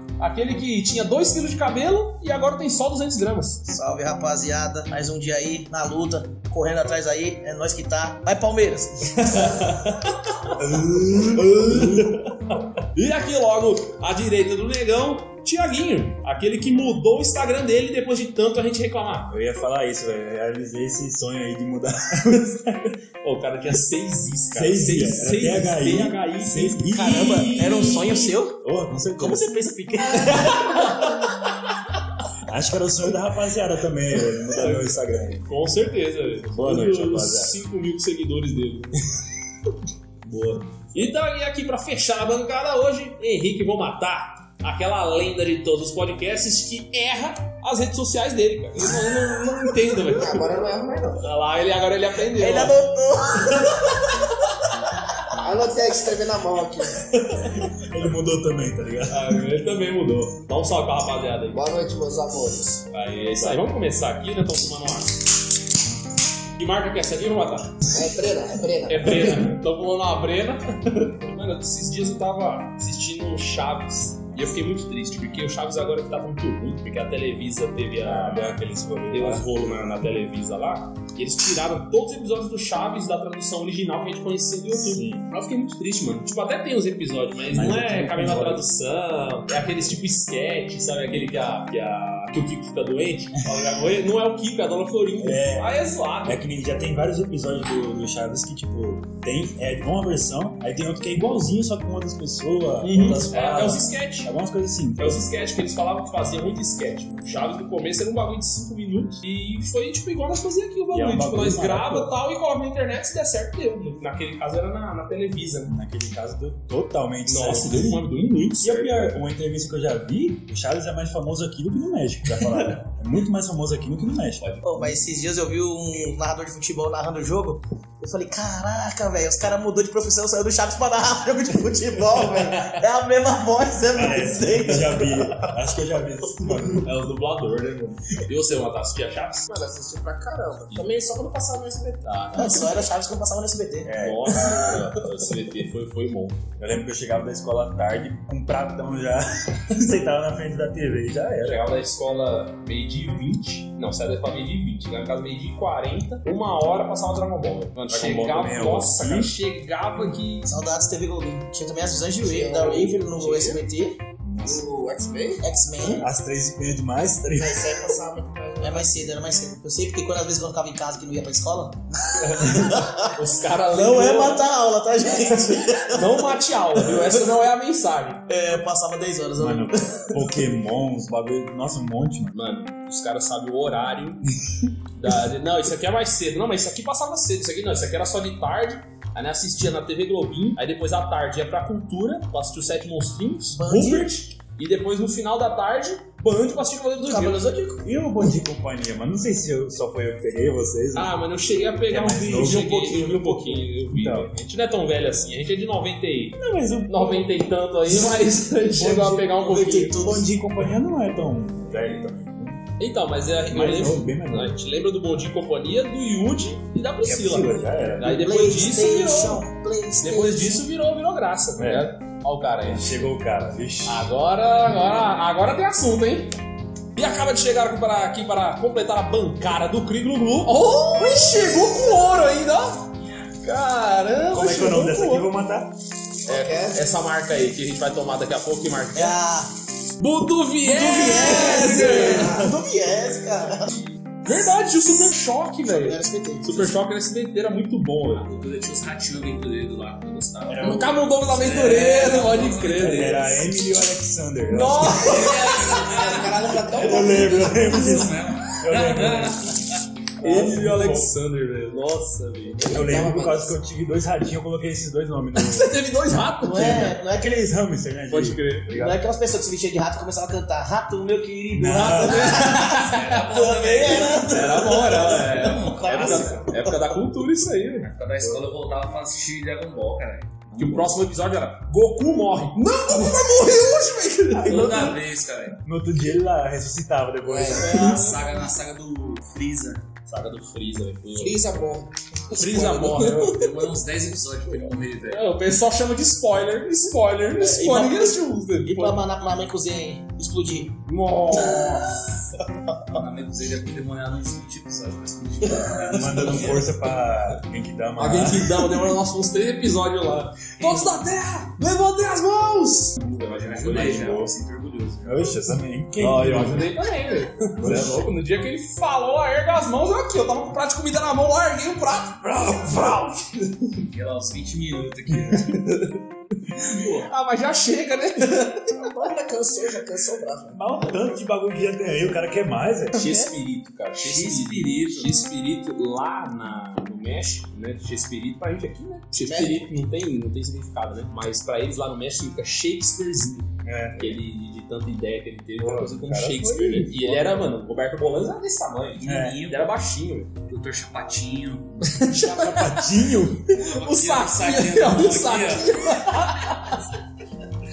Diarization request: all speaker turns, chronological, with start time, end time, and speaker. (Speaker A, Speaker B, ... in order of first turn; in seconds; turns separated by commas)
Speaker A: 0.2-3.6, Speaker B: 3.7-9.8, Speaker C: 10.5-12.2, Speaker A: 11.4-12.2, Speaker A: 12.9-19.3, Speaker C: 19.3-22.9, Speaker A: 23.2-28.4, Speaker C: 24.5-29.5, Speaker B: 26.9-28.6, Speaker B: 29.2-31.2, Speaker C: 32.4-35.5, Speaker A: 34.5-39.1, Speaker C: 36.4-37.6, Speaker A: 40.3-50.7, Speaker D: 50.1-51.3, Speaker A: 51.2-52.8, Speaker B: 52.3-54.5, Speaker D: 55.4-57.1, Speaker C: 57.5-59.5, Speaker A: 59.1-61.8, Speaker D: 61.5-63.5, Speaker A: 62.9-65.2, Speaker A: 66.6-67.9, Speaker D: 67.9-69.4, Speaker A: 68.9-96.4, Speaker C: 78.0-79.5, Speaker C: 84.8-85.2, Speaker C: 87.5-88.7, Speaker C: 95.2-105.2, Speaker A: 102.8-104.3, Speaker A: 105.0-115.7, Speaker C: 110.9-112.1, Speaker C: 115.7-118.0, Speaker A: 117.3-119.2, Speaker C: 118.6-124.5, Speaker A: 124.4-125.0, Speaker B: 124.6-135.5, Speaker C: 133.9-136.9, Speaker A: 136.8-139.5, Speaker D: 139.5-142.2, Speaker A: 142.0-142.7, Speaker B: 142.3-144.0, Speaker C: 143.8-144.9, Speaker A: 144.0-146.4, Speaker C: 146.6-151.7, Speaker A: 151.4-160.5, Speaker C: 157.9-159.4, Speaker B: 160.5-164.0, Speaker D: 162.2-163.7, Speaker C: 164.2-164.7, Speaker D: 164.4-165.5, Speaker B: 165.4-166.1, Speaker C: 165.9-167.8, Speaker D: 167.3-169.2, Speaker B: 168.6-177.3, Speaker A: 172.2-174.5, Speaker A: 175.9-178.2, Speaker B: 178.3-180.3, Speaker C: 179.4-182.3, Speaker A: 182.3-184.2, Speaker A: 184.9-197.4, Speaker B: 193.6-194.1, Speaker B: 197.1-197.9, Speaker C: 197.8-204.3, Speaker A: 200.9-210.0, Speaker C: 206.3-207.3, Speaker C: 208.6-209.3, Speaker B: 209.3-210.3, Speaker C: 209.9-212.7, Speaker A: 212.8-223.1, Speaker C: 213.5-214.6, Speaker C: 217.0-218.4, Speaker B: 218.0-220.7, Speaker C: 221.6-221.9, Speaker C: 222.6-224.1, Speaker A: 223.9-226.4, Speaker A: 226.9-235.3, Speaker C: 234.3-235.7, Speaker A: 236.2-239.2, Speaker D: 236.3-236.9, Speaker B: 238.9-239.5, Speaker A: 240.0-242.6, Speaker B: 240.6-243.8, Speaker A: 243.7-248.3, Speaker B: 245.7-246.7, Speaker E: 248.1-253.3, Speaker C: 250.5-250.9, Speaker A: 250.6-253.2, Speaker C: 252.8-255.3, Speaker A: 254.5-255.8, Speaker E: 254.9-256.6, Speaker D: 255.3-257.7, Speaker C: 256.7-259.6, Speaker E: 257.4-259.8, Speaker C: 260.2-261.1, Speaker A: 260.2-262.8, Speaker D: 262.6-263.5, Speaker C: 262.7-265.8, Speaker A: 265.4-266.9, Speaker B: 266.4-267.4, Speaker C: 266.6-269.0, Speaker A: 268.1-268.7, Speaker B: 268.7-276.8, Speaker C: 271.5-272.5, Speaker A: 271.7-273.0, Speaker E: 272.2-276.5, Speaker A: 273.9-277.9, Speaker E: 277.8-280.9, Speaker A: 280.6-284.9, Speaker D: 282.9-283.9, Speaker C: 284.3-285.0, Speaker E: 284.4-285.6, Speaker C: 285.6-288.1, Speaker D: 287.2-288.1, Speaker E: 287.5-289.9, Speaker A: 290.1-291.4, Speaker D: 291.1-293.4, Speaker A: 292.3-293.4, Speaker E: 292.7-295.3, Speaker A: 295.1-299.0, Speaker B: 297.4-300.8, Speaker A: 300.9-301.9, Speaker B: 301.3-302.4, Speaker E: 301.4-301.8, Speaker E: 302.9-306.6, Speaker C: 305.7-308.7, Speaker A: 308.0-314.2, Speaker E: 310.6-311.2, Speaker E: 313.0-315.4, Speaker C: 313.4-314.3, Speaker C: 315.0-316.8, Speaker A: 315.9-323.8, Speaker C: 317.6-318.1, Speaker E: 323.9-325.6, Speaker A: 325.5-326.0, Speaker E: 326.5-327.1, Speaker A: 326.8-328.9, Speaker D: 328.7-330.6, Speaker C: 330.5-333.2, Speaker A: 332.9-350.3, Speaker E: 334.0-335.2, Speaker B: 339.2-339.6, Speaker C: 343.6-344.2, Speaker C: 345.6-347.5, Speaker E: 349.0-349.7, Speaker C: 349.0-349.4, Speaker E: 350.5-352.1, Speaker A: 351.8-356.8, Speaker C: 352.1-353.5, Speaker E: 353.6-356.3